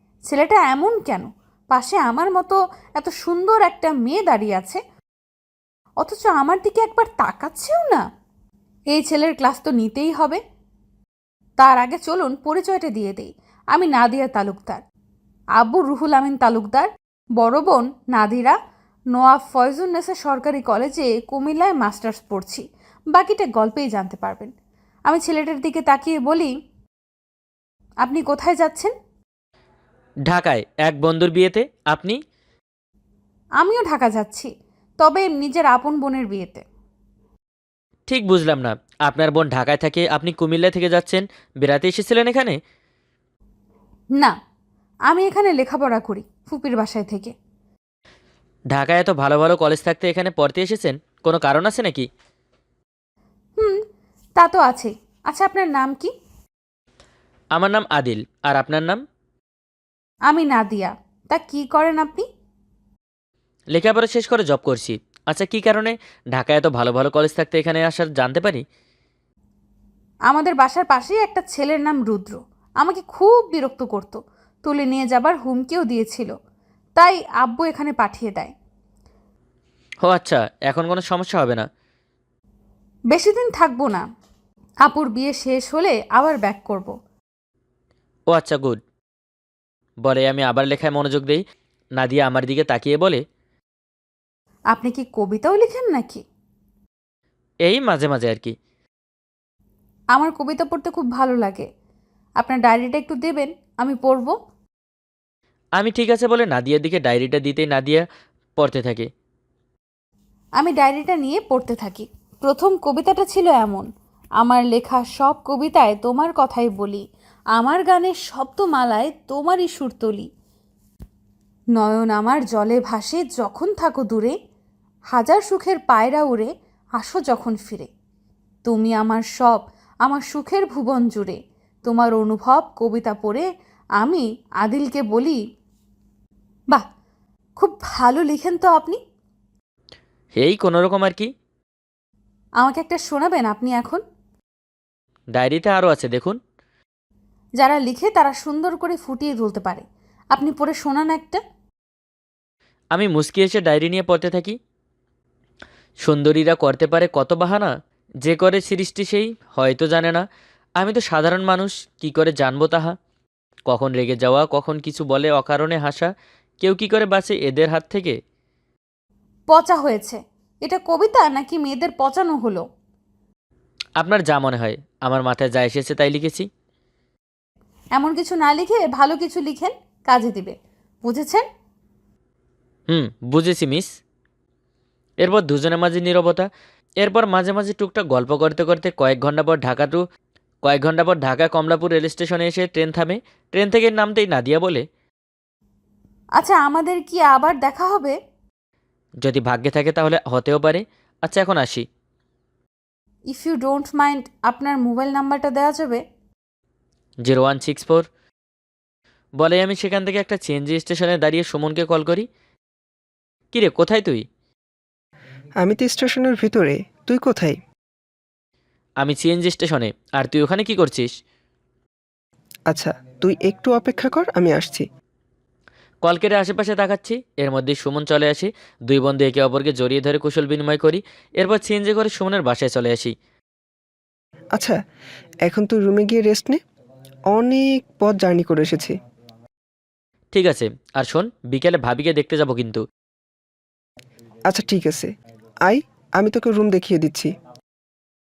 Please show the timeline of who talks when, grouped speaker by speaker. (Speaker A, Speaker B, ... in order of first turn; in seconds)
Speaker A: 0.3-4.8, 6.0-8.0, 8.9-10.4, 11.6-14.8, 15.6-18.6, 19.1-24.5, 25.1-26.5, 28.0-28.9, 33.6-34.5, 35.0-36.6, 45.1-47.3, 54.4-56.1, 60.3-62.2, 70.3-76.3, 77.0-78.5, 83.1-84.0, 84.9-86.9, 94.7-96.2, 100.2-101.7, 102.4-104.3, 110.6-113.9, 114.4-117.0, 117.5-120.3, 121.8-124.3, 125.1-127.9, 128.7-133.5, 134.0-135.4, 137.6-139.0, 142.6-144.0, 147.6-151.4, 169.5-172.6, 178.0-181.4, 196.4-198.2, 203.3-206.0
Speaker B: 30.3-32.2, 38.1-42.6, 48.7-52.1, 57.5-59.0, 63.7-68.6, 80.0-81.7, 88.3-88.8, 90.0-91.4, 92.0-93.2, 97.7-98.5, 105.8-108.0, 108.6-109.1, 140.4-141.3, 145.4-146.4, 152.9-154.6, 156.0-157.7, 158.2-160.2, 160.8-162.9, 163.7-166.1, 166.6-168.2, 174.0-176.5, 182.9-183.9, 185.2-186.5, 187.0-190.0, 190.6-194.8, 199.2-201.9, 207.2-208.1, 209.4-212.3, 213.5-214.2, 219.0-221.1, 226.0-233.1, 240.3-242.8
Speaker C: 215.6-217.6, 222.7-224.8, 235.5-236.6, 237.3-238.9, 244.5-245.1, 245.7-247.3